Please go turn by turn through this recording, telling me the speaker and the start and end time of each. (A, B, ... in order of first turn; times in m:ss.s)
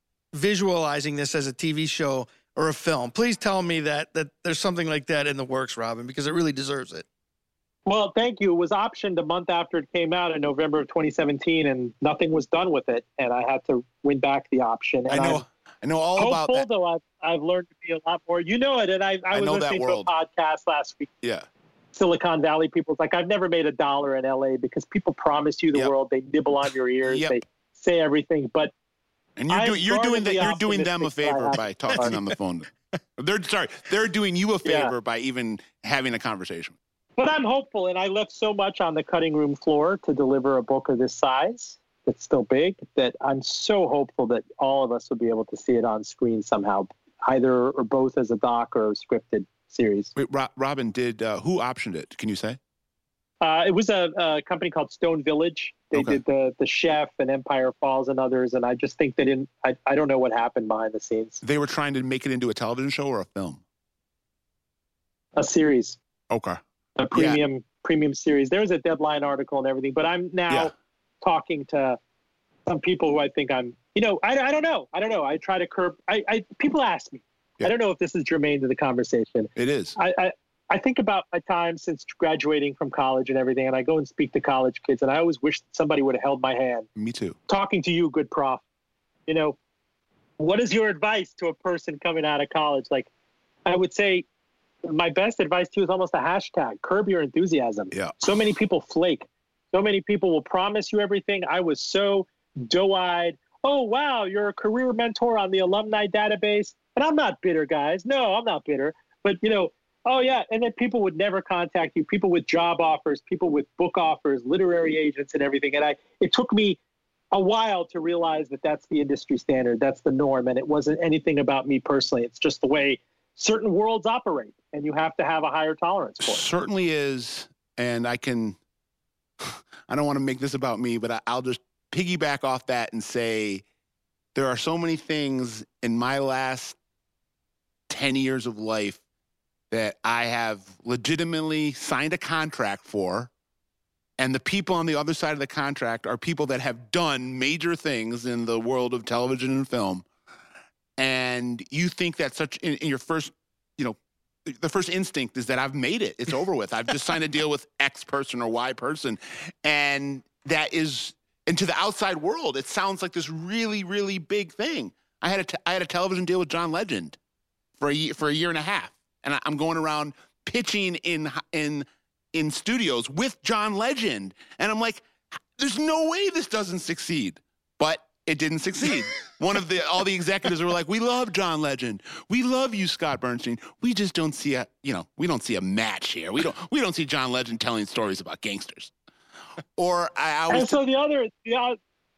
0:00.3-0:07.1 A
0:07.9-0:15.4 B
0:15.1-0:16.7 C
0:16.2-0:21.1 B
0:19.3-0:20.1 C
0:21.2-0:21.5 C
0:21.9-0:28.7 B
0:27.1-0:27.4 C
0:29.4-0:36.7 C
0:29.5-0:32.1 B
0:31.9-0:32.3 A
0:34.6-0:34.9 B
0:37.2-0:50.1 B
0:50.2-0:52.6 C
0:53.4-1:01.4 B
0:55.9-0:56.2 C
1:01.4-1:03.6 C
1:05.4-1:06.0 B
1:06.3-1:06.6 C
1:07.0-1:12.0 B
1:07.1-1:07.4 C
1:12.7-1:26.9 B
1:19.6-1:20.0 C
1:27.0-1:27.4 C
1:27.5-1:28.6 B
1:29.3-1:29.6 B
1:30.4-1:33.1 B
1:33.7-1:34.3 B
1:34.8-1:56.8 B
1:37.9-1:38.5 C
1:57.3-2:06.4 B
2:06.2-2:08.6 C
2:09.4-2:13.6 C
2:14.4-2:16.8 C
2:17.9-2:19.0 C
2:19.7-2:23.3 C
2:24.2-2:30.1 C
2:31.0-2:47.2 C
2:47.8-3:08.9 C
3:09.8-3:10.8 C
3:10.5-3:11.8 B